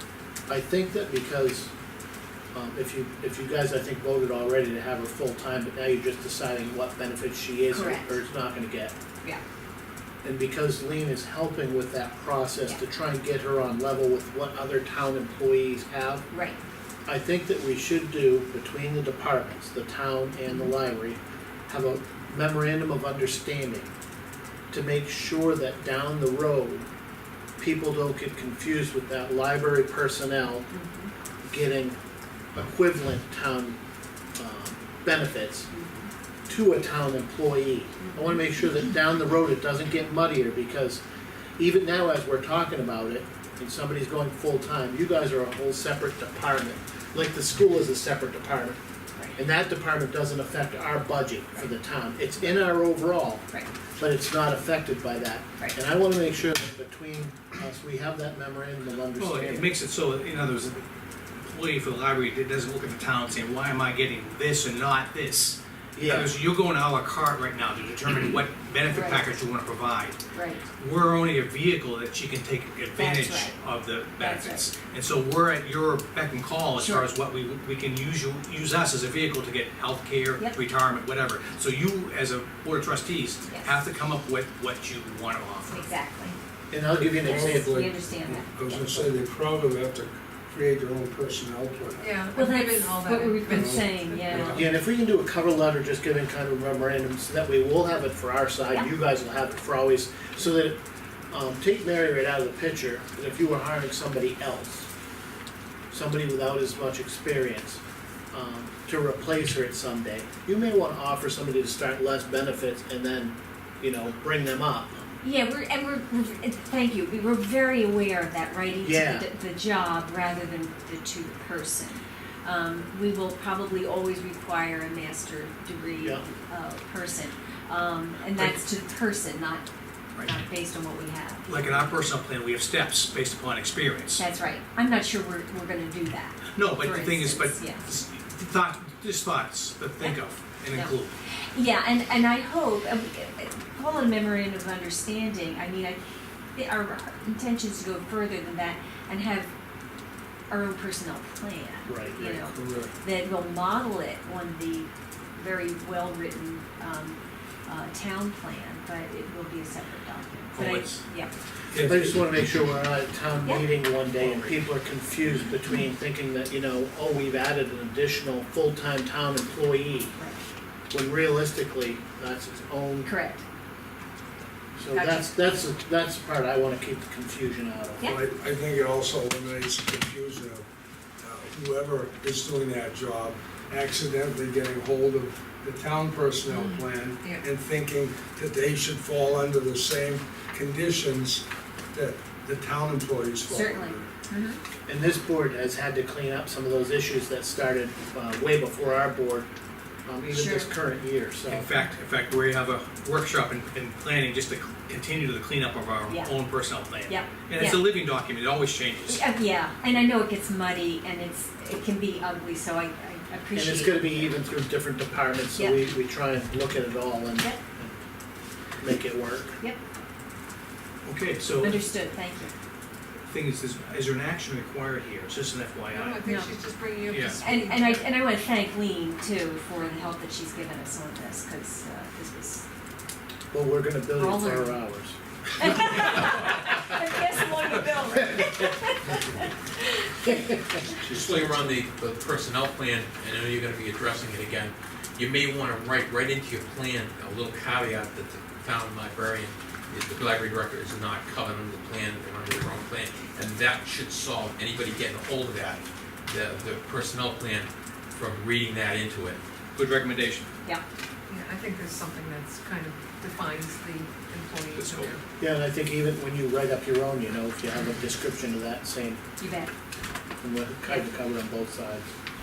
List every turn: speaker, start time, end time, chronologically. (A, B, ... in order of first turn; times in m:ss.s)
0:00.5-0:01.7 A
0:02.5-0:08.9 A
0:07.7-0:08.2 B
0:10.2-0:16.2 A
0:16.3-0:16.6 B
0:17.0-0:23.9 A
0:24.7-0:26.8 A
0:27.6-0:30.7 A
0:30.7-0:31.1 B
0:31.4-0:32.0 A
0:32.5-0:33.8 A
0:34.4-0:35.7 A
0:35.7-0:36.1 B
0:36.5-0:41.0 A
0:38.0-0:38.4 B
0:41.6-0:48.8 A
0:49.4-0:53.4 A
0:54.0-0:59.7 A
0:59.2-1:00.8 C
1:01.4-1:10.2 C
1:05.9-1:06.3 A
1:08.9-1:09.4 B
1:10.3-1:10.6 B
1:10.8-1:25.8 C
1:13.0-1:13.6 B
1:14.2-1:14.7 B
1:16.8-1:17.1 B
1:23.4-1:23.8 B
1:25.7-1:26.4 B
1:26.7-1:27.7 A
1:26.9-1:32.2 D
1:27.2-1:29.0 B
1:32.0-1:34.5 E
1:32.3-1:34.7 B
1:33.5-1:33.8 D
1:34.4-1:40.8 A
1:41.3-1:44.9 A
1:45.9-1:47.8 A
1:48.3-1:55.0 A
1:55.2-2:09.6 B
1:58.8-1:59.2 A
2:10.2-2:10.4 C
2:10.2-2:11.9 B
2:11.4-2:14.2 C
2:14.1-2:17.8 B
2:16.5-2:21.1 C
2:20.7-2:26.0 B
2:26.5-2:29.5 B
2:30.5-2:41.3 B
2:31.9-2:32.4 A
2:32.3-2:32.9 D
2:40.5-2:41.0 C
2:41.7-2:42.2 C
2:41.8-2:50.2 A
2:44.2-2:44.6 C
2:50.9-2:53.1 A
2:53.0-2:53.4 B
2:54.8-2:58.0 A
2:54.9-2:55.3 E
2:58.0-3:00.6 D
3:01.2-3:14.1 D
3:06.5-3:07.4 E
3:13.5-3:14.6 B
3:14.9-3:19.5 A
3:20.0-3:21.7 A
3:20.3-3:20.7 B
3:21.5-3:29.2 C
3:26.1-3:26.3 B
3:27.0-3:27.8 B
3:29.1-3:34.3 B
3:33.5-3:38.0 A
3:38.8-3:39.6 A
3:41.0-3:41.8 C
3:41.6-3:42.5 B
3:43.2-3:46.2 C
3:45.9-3:48.0 E
3:46.2-3:46.5 B
3:47.1-3:47.4 C
3:47.3-3:52.6 B
3:53.5-3:55.2 A
3:54.2-3:54.8 B
3:55.6-4:00.4 B
4:00.9-4:19.4 F
4:19.7-4:20.5 C
4:21.3-4:25.2 E
4:25.4-4:29.2 A
4:29.4-4:29.7 B
4:30.4-4:32.1 A